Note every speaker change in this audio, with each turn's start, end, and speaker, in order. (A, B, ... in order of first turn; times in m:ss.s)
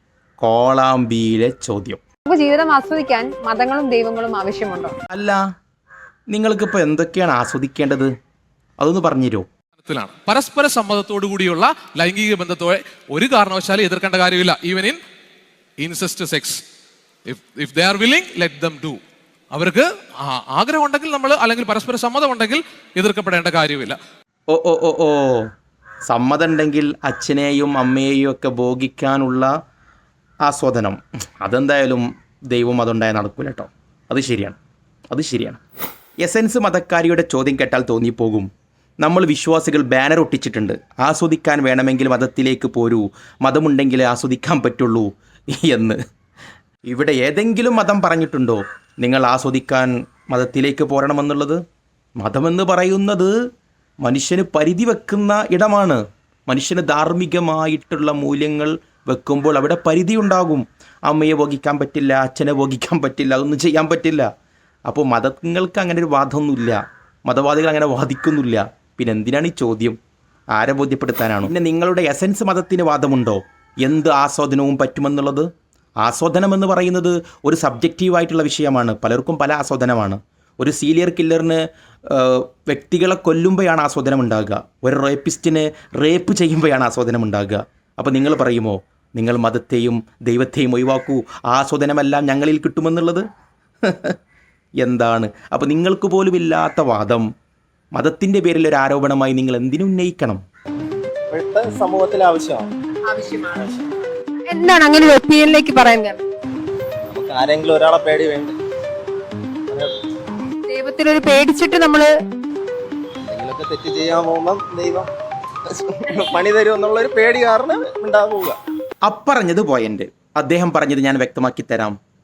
0:00.4-0:02.0 A
0:02.3-0:04.9 B
0:05.1-0:05.4 A
0:06.3-0:08.1 A
0:08.8-0:09.4 A
0:09.8-0:15.0 C
0:15.8-0:16.6 C
0:17.3-0:19.0 C
0:19.5-0:24.0 C
0:24.5-0:25.5 A
0:26.1-0:29.5 A
0:30.5-0:34.6 A
0:35.1-0:35.6 A
0:36.2-0:38.5 A
0:39.0-0:46.0 A
0:46.9-0:51.6 A
0:52.2-0:53.3 A
0:54.0-1:04.3 A
1:04.9-1:10.0 A
1:10.5-1:15.5 A
1:16.0-1:33.2 A
1:33.8-1:34.2 A
1:34.8-1:37.3 A
1:38.0-1:40.4 A
1:41.3-1:42.7 D
1:43.1-1:43.7 B
1:44.5-1:46.2 B
1:47.1-1:48.6 D
1:49.7-1:49.9 D
1:50.7-1:52.1 B
1:53.2-1:55.1 D
1:55.7-1:58.6 D
1:59.0-2:02.0 A